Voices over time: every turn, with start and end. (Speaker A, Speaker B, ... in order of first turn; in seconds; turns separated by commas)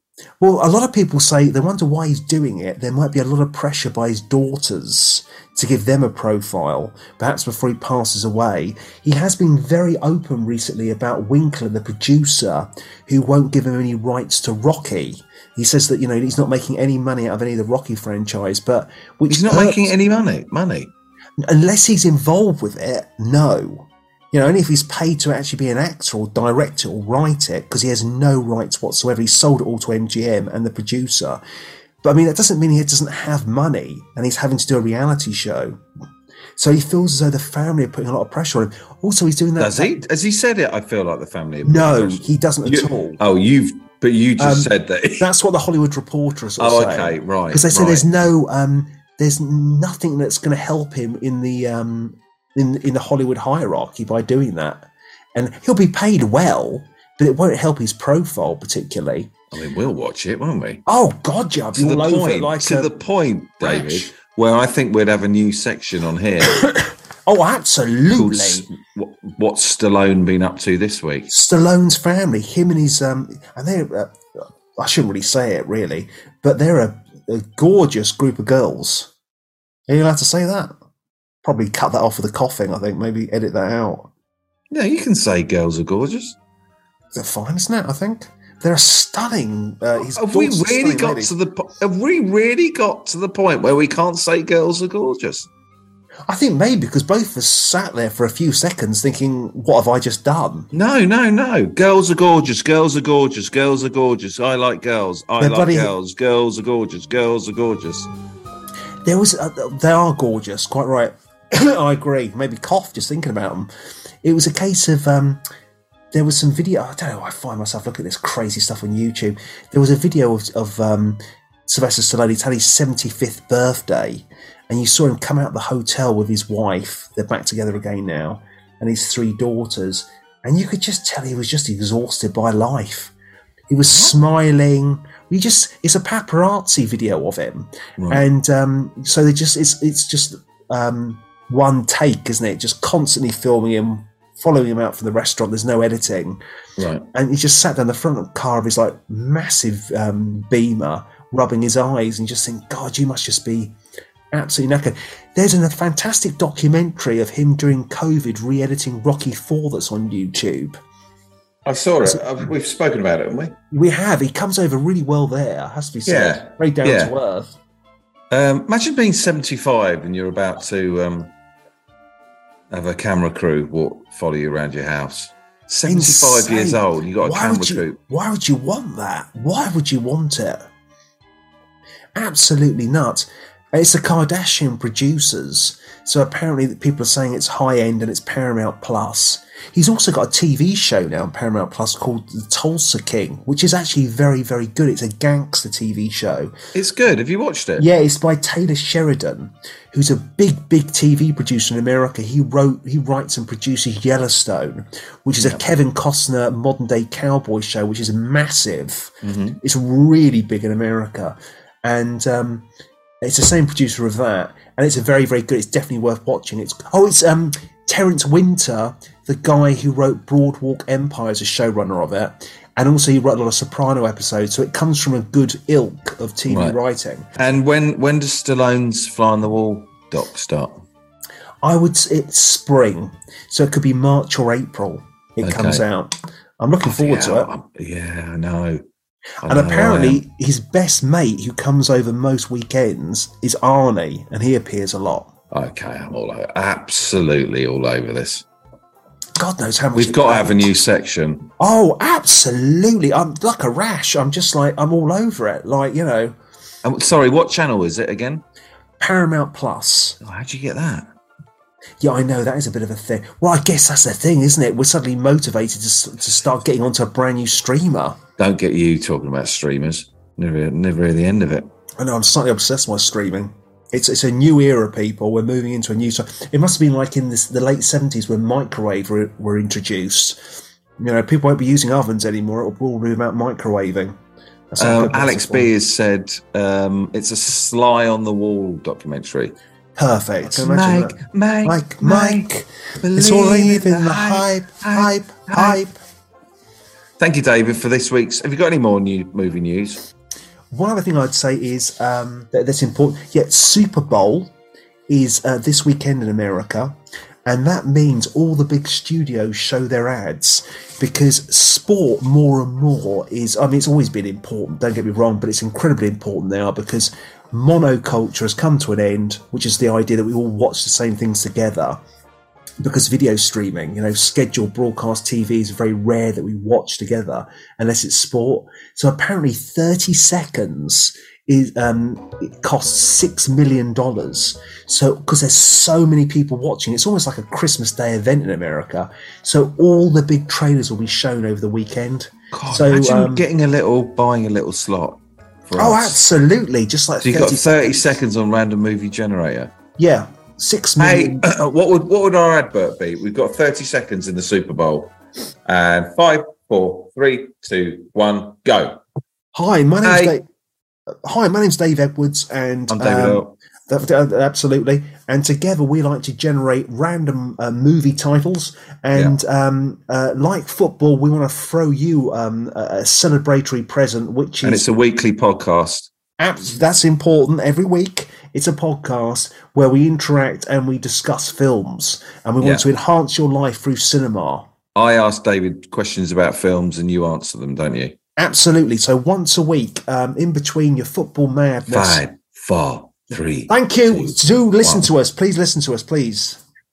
Speaker A: 0.4-19.9, Speaker B: 19.3-20.9, Speaker A: 21.4-31.4, Speaker A: 32.0-35.8, Speaker A: 36.6-40.0, Speaker B: 39.6-45.3, Speaker A: 41.6-43.2, Speaker A: 44.4-59.3, Speaker B: 46.6-48.1, Speaker B: 59.5-60.8, Speaker A: 60.9-62.9, Speaker B: 61.8-66.6, Speaker A: 63.6-64.1, Speaker A: 66.5-68.7, Speaker B: 68.1-71.3, Speaker A: 71.3-79.1, Speaker A: 79.9-80.7, Speaker A: 81.4-84.1, Speaker B: 84.7-86.4, Speaker A: 87.2-91.3, Speaker B: 90.1-95.5, Speaker A: 96.3-100.7, Speaker B: 100.7-108.1, Speaker A: 105.4-105.9, Speaker A: 109.0-113.7, Speaker A: 114.2-115.4, Speaker A: 116.1-133.1, Speaker A: 133.7-146.4, Speaker B: 133.9-134.1, Speaker B: 138.0-138.2, Speaker B: 146.8-147.1, Speaker A: 147.1-153.7, Speaker A: 154.3-160.8, Speaker B: 161.6-163.6, Speaker A: 163.7-167.6, Speaker B: 166.1-167.1, Speaker B: 168.3-171.3, Speaker B: 172.7-178.0, Speaker A: 175.9-180.7, Speaker A: 182.2-196.5, Speaker B: 196.7-197.8, Speaker A: 197.8-212.7, Speaker B: 209.2-209.6, Speaker A: 213.2-227.3, Speaker B: 226.5-226.8, Speaker B: 227.3-230.8, Speaker A: 231.6-237.5, Speaker B: 235.4-235.8, Speaker B: 236.8-238.8, Speaker B: 239.4-240.2, Speaker A: 239.5-245.3, Speaker B: 245.5-248.4, Speaker A: 249.4-250.7, Speaker B: 249.9-251.5, Speaker A: 251.6-256.4, Speaker B: 256.8-258.4, Speaker A: 259.0-260.2, Speaker B: 260.2-261.1, Speaker A: 262.0-268.2, Speaker B: 268.4-271.7, Speaker A: 272.0-284.2, Speaker A: 284.7-285.7, Speaker B: 284.8-289.5, Speaker A: 290.0-295.9, Speaker B: 290.4-292.5, Speaker B: 293.0-295.8, Speaker B: 297.2-300.0, Speaker A: 300.7-304.5, Speaker A: 305.1-322.0, Speaker A: 322.8-343.4, Speaker B: 342.5-346.2, Speaker A: 345.8-348.1, Speaker B: 347.2-349.7, Speaker A: 350.0-351.4, Speaker B: 351.0-355.1, Speaker B: 355.6-359.0, Speaker A: 359.5-360.4, Speaker B: 360.0-360.4, Speaker A: 361.2-374.9, Speaker B: 362.9-363.5, Speaker B: 369.1-369.4, Speaker B: 374.6-376.1, Speaker A: 376.4-384.7, Speaker B: 384.9-388.1, Speaker A: 388.4-392.2, Speaker B: 391.9-395.1, Speaker A: 393.7-396.6